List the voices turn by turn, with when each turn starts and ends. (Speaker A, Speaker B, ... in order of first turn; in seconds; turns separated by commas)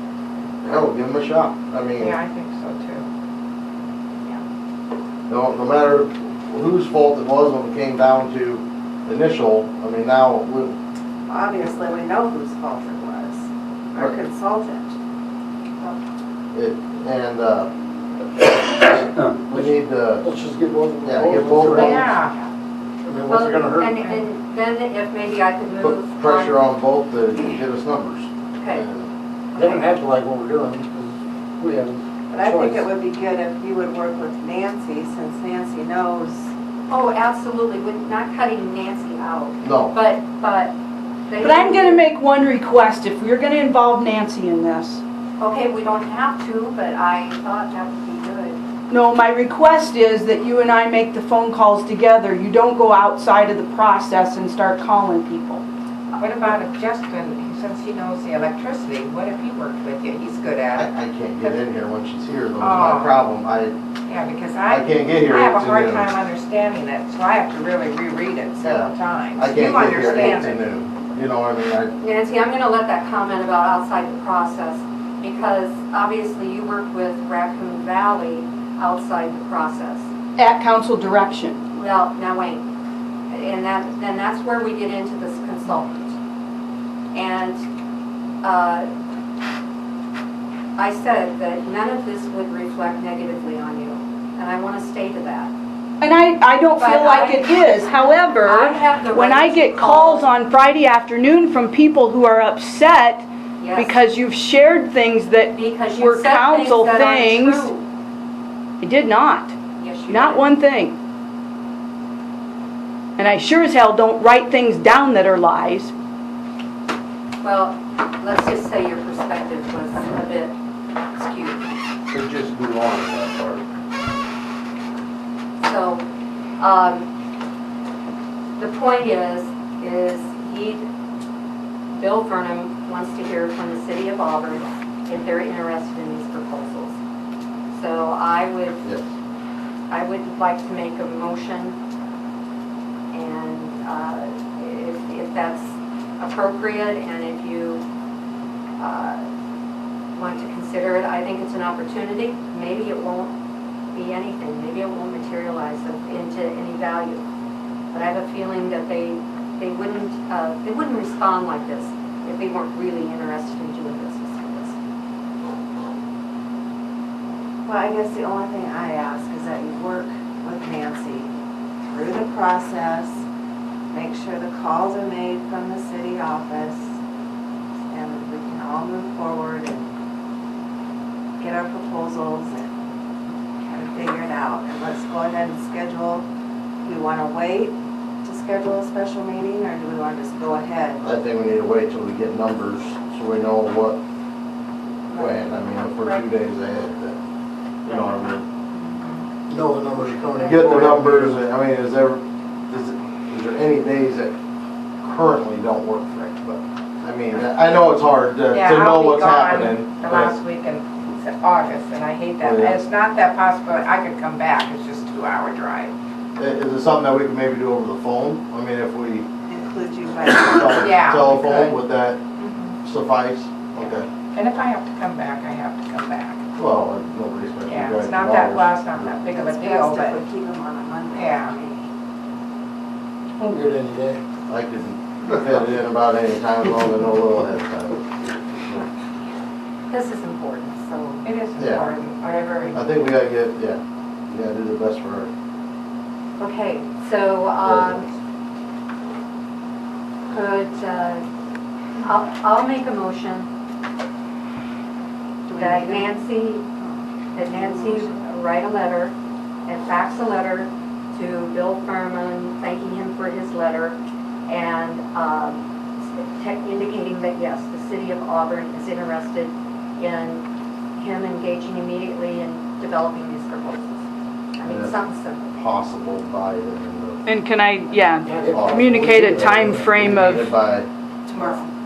Speaker A: 0.6-2.2, Speaker B: 2.0-3.1, Speaker A: 5.3-10.8, Speaker C: 11.3-14.9, Speaker A: 16.5-17.7, Speaker A: 18.8-20.3, Speaker D: 19.4-22.1, Speaker A: 21.0-22.1, Speaker B: 21.7-22.3, Speaker D: 23.0-23.9, Speaker E: 23.3-26.6, Speaker A: 25.8-29.1, Speaker E: 28.6-28.9, Speaker E: 29.5-29.8, Speaker D: 29.5-32.9, Speaker C: 32.3-36.5, Speaker E: 36.9-40.8, Speaker A: 39.6-39.9, Speaker E: 41.3-42.0, Speaker F: 41.4-45.0, Speaker E: 45.4-48.6, Speaker F: 48.9-55.6, Speaker E: 56.1-56.5, Speaker B: 56.2-61.6, Speaker A: 60.7-63.8, Speaker B: 62.6-63.2, Speaker B: 64.1-70.6, Speaker A: 64.7-66.1, Speaker A: 68.6-71.9, Speaker E: 70.0-70.5, Speaker E: 72.0-80.1, Speaker F: 80.4-81.6, Speaker E: 81.7-82.6, Speaker E: 83.3-86.2, Speaker E: 87.1-87.6, Speaker E: 88.4-88.9, Speaker E: 90.8-95.5, Speaker F: 96.0-107.7, Speaker E: 96.7-100.3, Speaker E: 103.6-104.0, Speaker E: 105.5-107.8, Speaker F: 108.8-109.5, Speaker E: 109.8-110.5, Speaker F: 110.1-111.0, Speaker F: 113.2-115.9, Speaker E: 117.4-120.5, Speaker E: 121.1-121.7, Speaker A: 122.1-123.7, Speaker E: 125.6-126.0, Speaker E: 126.6-127.1, Speaker E: 128.6-130.9, Speaker E: 131.9-137.0, Speaker E: 137.7-138.9, Speaker A: 138.8-139.1, Speaker E: 139.9-141.8, Speaker E: 143.1-147.8, Speaker E: 148.8-149.2, Speaker E: 150.1-153.3, Speaker E: 153.9-157.2, Speaker E: 157.9-164.8, Speaker C: 167.7-171.3, Speaker C: 171.8-173.2, Speaker C: 173.9-177.0, Speaker C: 177.9-179.9, Speaker C: 181.4-182.7, Speaker C: 183.6-186.3, Speaker C: 186.8-191.0, Speaker A: 191.0-194.0, Speaker A: 195.1-197.2, Speaker A: 197.8-198.4, Speaker B: 198.8-199.2, Speaker D: 199.5-201.4, Speaker A: 200.3-204.3, Speaker A: 205.0-210.3, Speaker B: 208.5-215.9, Speaker A: 212.4-212.8, Speaker A: 216.4-219.3, Speaker C: 219.4-220.8, Speaker A: 220.3-222.2, Speaker B: 220.8-221.8, Speaker B: 222.4-222.8, Speaker A: 222.8-224.1, Speaker B: 224.3-226.4, Speaker A: 226.6-229.2, Speaker B: 227.7-230.2, Speaker C: 229.3-231.8, Speaker B: 231.1-231.6, Speaker D: 233.4-234.2, Speaker A: 234.5-238.9, Speaker E: 239.9-241.2, Speaker B: 241.2-242.8, Speaker A: 241.6-241.9, Speaker A: 242.7-245.3, Speaker E: 246.4-248.1, Speaker A: 247.6-248.1, Speaker E: 250.3-251.2, Speaker E: 252.0-253.5, Speaker C: 255.4-256.1, Speaker E: 255.6-256.6, Speaker C: 256.8-258.1, Speaker E: 257.3-259.1, Speaker E: 259.6-270.4, Speaker E: 270.9-274.0, Speaker E: 274.6-275.5, Speaker A: 274.6-275.0, Speaker A: 275.5-277.2, Speaker F: 277.2-280.5, Speaker D: 278.2-279.9, Speaker A: 278.5-280.9, Speaker C: 281.3-281.7, Speaker E: 281.3-281.7